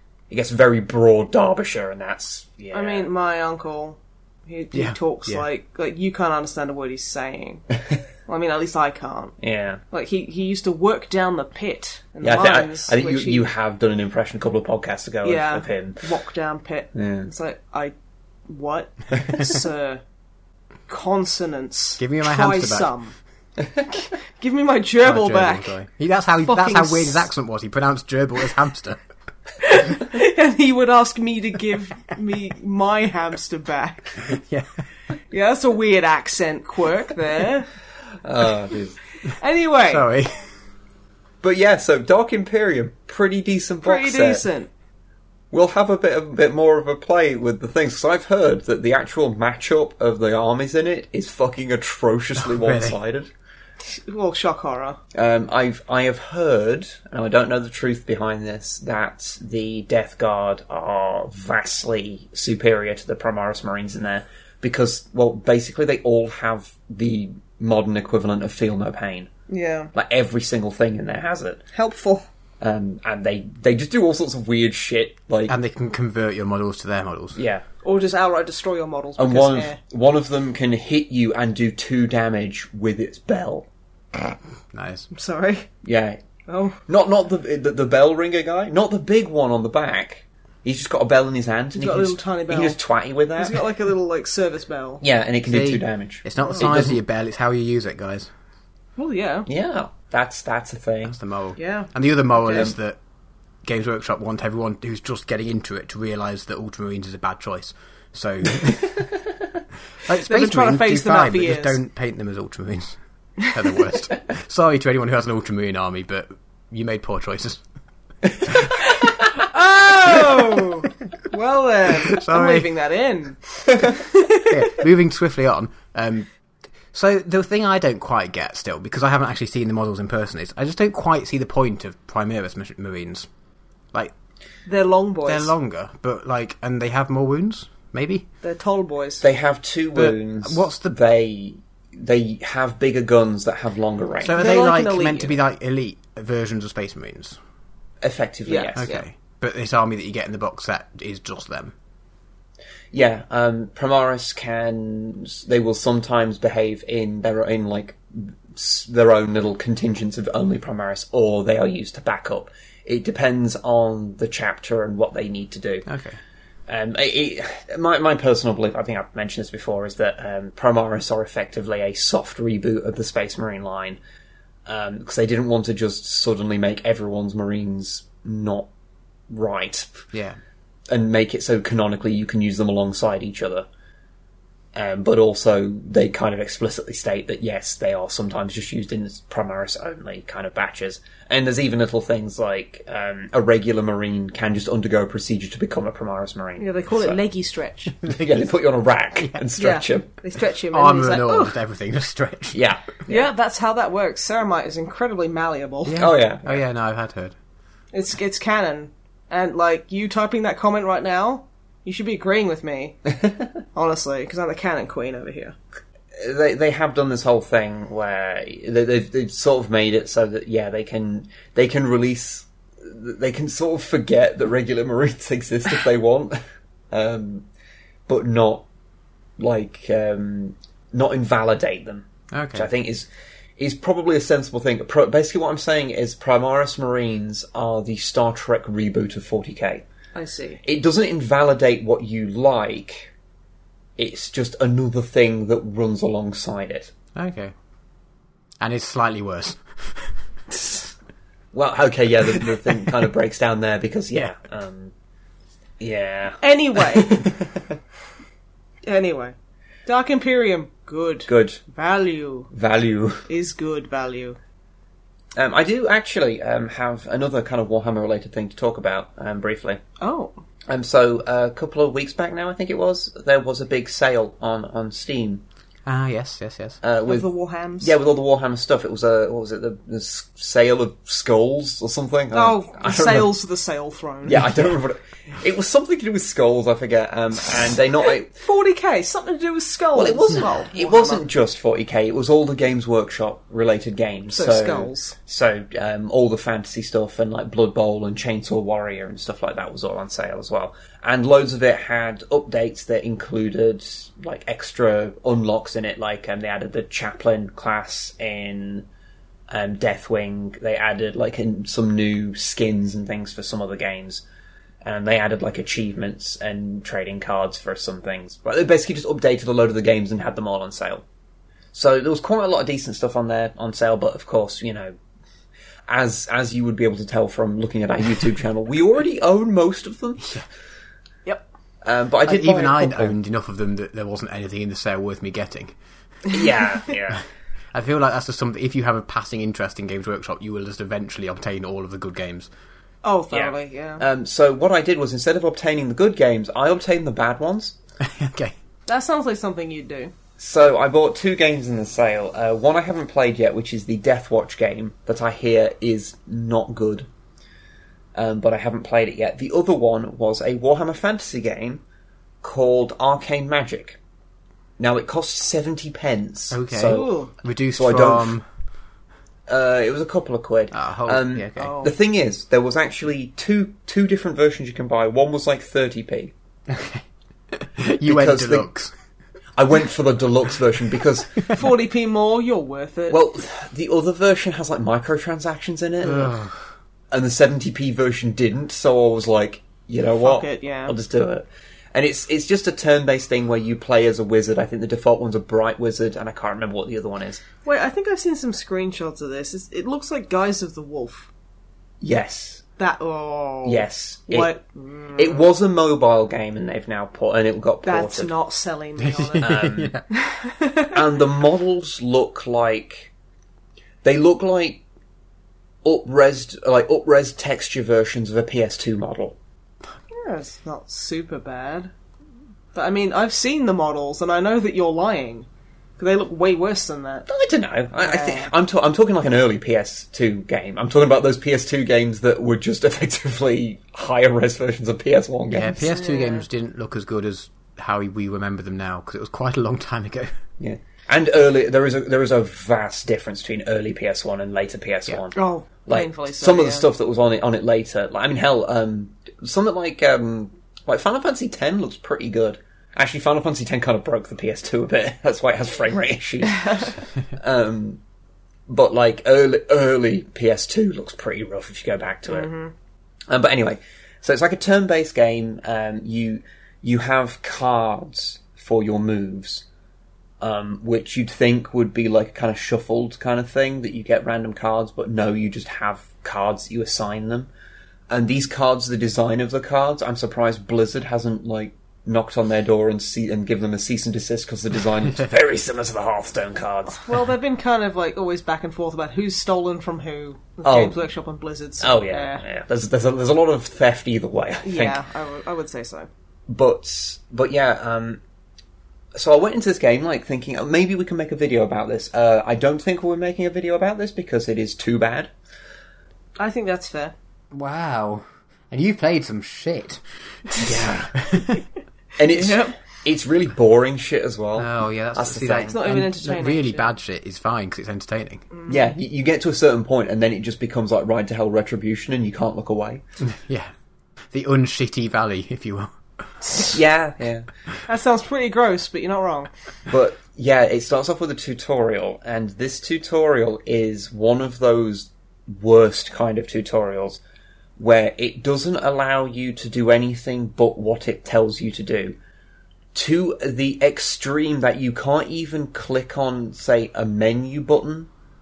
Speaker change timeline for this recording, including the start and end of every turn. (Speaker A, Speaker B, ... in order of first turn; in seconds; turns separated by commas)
Speaker A: 0.3-3.1, Speaker B: 2.7-7.7, Speaker C: 4.7-5.5, Speaker B: 8.3-9.4, Speaker A: 9.4-9.8, Speaker B: 9.9-13.5, Speaker A: 12.2-16.0, Speaker B: 15.2-17.9, Speaker A: 16.9-17.3, Speaker B: 18.5-20.0, Speaker B: 20.9-23.1, Speaker C: 22.0-22.9, Speaker B: 24.4-25.8, Speaker C: 25.0-29.0, Speaker B: 26.4-27.3, Speaker B: 29.6-34.4, Speaker C: 34.3-34.7, Speaker B: 35.3-37.7, Speaker A: 38.2-39.0, Speaker B: 39.2-40.1, Speaker C: 39.9-40.4, Speaker A: 41.4-44.5, Speaker B: 43.8-44.7, Speaker A: 45.5-53.3, Speaker C: 52.4-53.0, Speaker B: 53.9-55.0, Speaker A: 55.1-69.3, Speaker B: 69.5-69.9, Speaker A: 70.0-71.6, Speaker B: 71.7-72.3, Speaker A: 72.6-75.5, Speaker C: 75.5-77.4, Speaker A: 77.3-77.7, Speaker B: 77.8-79.8, Speaker A: 79.2-83.7, Speaker C: 84.7-85.1, Speaker B: 85.1-85.7, Speaker A: 85.8-86.2, Speaker B: 86.5-86.8, Speaker A: 86.9-93.6, Speaker B: 91.8-92.8, Speaker B: 93.4-95.0, Speaker A: 95.0-97.0, Speaker C: 95.5-98.3, Speaker B: 96.4-96.7, Speaker B: 99.0-99.5, Speaker A: 99.5-101.2, Speaker C: 101.0-103.0, Speaker B: 101.6-102.7, Speaker C: 103.7-109.1, Speaker C: 110.0-117.6, Speaker B: 110.2-111.8, Speaker B: 119.0-124.5, Speaker C: 122.1-122.7, Speaker C: 124.4-126.3, Speaker C: 126.9-133.3, Speaker B: 134.7-135.5, Speaker C: 135.3-138.2, Speaker B: 138.4-139.3, Speaker A: 139.2-144.4, Speaker C: 139.9-140.9, Speaker C: 144.2-147.4, Speaker B: 144.4-145.3, Speaker A: 148.0-148.8, Speaker B: 148.5-149.1, Speaker C: 148.8-151.7, Speaker A: 152.9-165.9, Speaker C: 165.9-166.2, Speaker A: 166.7-174.0, Speaker A: 174.7-178.7, Speaker A: 179.3-180.0, Speaker C: 180.1-180.4, Speaker A: 180.9-183.7, Speaker A: 184.8-197.2, Speaker B: 196.6-198.0, Speaker A: 198.0-200.1, Speaker B: 199.6-201.6, Speaker C: 200.7-202.7, Speaker A: 202.5-203.3, Speaker B: 203.1-206.1, Speaker C: 205.9-207.3, Speaker A: 206.0-206.6, Speaker B: 207.9-213.0, Speaker B: 213.7-215.6, Speaker A: 216.2-226.4, Speaker A: 226.9-227.5, Speaker A: 228.1-228.7, Speaker A: 229.4-239.8, Speaker C: 232.3-232.7, Speaker B: 240.2-240.6, Speaker A: 240.6-243.1, Speaker A: 244.0-246.9, Speaker C: 247.2-247.5, Speaker C: 248.6-250.1, Speaker A: 251.5-254.9, Speaker A: 255.8-257.8, Speaker B: 256.4-257.3, Speaker B: 258.9-259.4, Speaker B: 259.9-262.5, Speaker A: 261.3-261.6, Speaker A: 262.5-263.3, Speaker B: 263.3-264.4, Speaker A: 265.4-269.8, Speaker B: 270.0-270.4, Speaker A: 270.7-275.4, Speaker C: 275.9-276.8, Speaker A: 276.8-277.3, Speaker B: 277.1-277.9, Speaker A: 277.8-283.3, Speaker B: 282.3-284.5, Speaker A: 284.3-288.3, Speaker B: 288.4-291.2, Speaker A: 289.9-308.9, Speaker B: 294.3-295.2, Speaker A: 309.5-314.2, Speaker A: 314.8-321.0, Speaker A: 321.7-324.9, Speaker A: 325.9-330.4, Speaker A: 331.8-333.1, Speaker C: 332.3-335.7, Speaker A: 336.3-337.2, Speaker C: 337.7-342.5, Speaker B: 343.0-344.0, Speaker A: 343.3-347.8, Speaker C: 348.0-348.5, Speaker B: 348.9-350.1, Speaker A: 350.4-357.1, Speaker A: 358.1-361.8, Speaker A: 362.4-364.0, Speaker A: 364.8-367.1, Speaker C: 366.5-368.4, Speaker B: 366.9-367.3, Speaker A: 367.7-368.4, Speaker A: 369.5-376.3, Speaker C: 370.7-371.7, Speaker B: 371.6-371.9, Speaker C: 376.7-378.9, Speaker A: 378.1-378.7, Speaker A: 379.6-381.6, Speaker B: 381.5-383.2, Speaker A: 383.1-386.4, Speaker C: 386.1-386.6, Speaker A: 387.1-397.4, Speaker B: 390.2-391.0, Speaker B: 397.6-401.3, Speaker A: 402.0-402.6, Speaker B: 402.8-405.5, Speaker A: 403.6-404.6, Speaker A: 405.2-408.3, Speaker B: 407.8-409.6, Speaker C: 409.0-410.1, Speaker A: 409.4-410.0, Speaker B: 410.1-411.0, Speaker A: 410.9-413.1, Speaker A: 414.0-414.8, Speaker A: 415.8-419.4, Speaker B: 420.1-421.9, Speaker B: 422.7-427.3, Speaker A: 427.3-435.9, Speaker B: 428.0-428.5, Speaker C: 435.5-440.3, Speaker B: 435.9-436.5, Speaker A: 440.6-458.0, Speaker B: 445.3-446.9, Speaker B: 456.5-456.9, Speaker A: 458.7-462.5, Speaker B: 462.3-462.7, Speaker A: 463.3-469.6, Speaker A: 470.4-477.5, Speaker A: 478.1-487.0, Speaker B: 486.9-492.4, Speaker A: 490.6-490.9, Speaker A: 491.8-495.0, Speaker B: 494.6-496.1, Speaker A: 496.5-498.2, Speaker A: 499.1-505.3, Speaker B: 506.4-507.1, Speaker C: 507.5-510.6, Speaker A: 510.6-511.2, Speaker C: 511.2-511.6, Speaker A: 512.2-515.8, Speaker B: 512.3-512.8, Speaker C: 514.6-518.5, Speaker B: 515.7-516.9, Speaker B: 518.5-518.9, Speaker A: 518.7-523.0, Speaker C: 523.2-523.7, Speaker C: 524.3-525.9, Speaker A: 526.7-527.5, Speaker B: 527.9-529.5, Speaker A: 529.9-537.2, Speaker A: 537.8-542.2, Speaker A: 542.9-548.1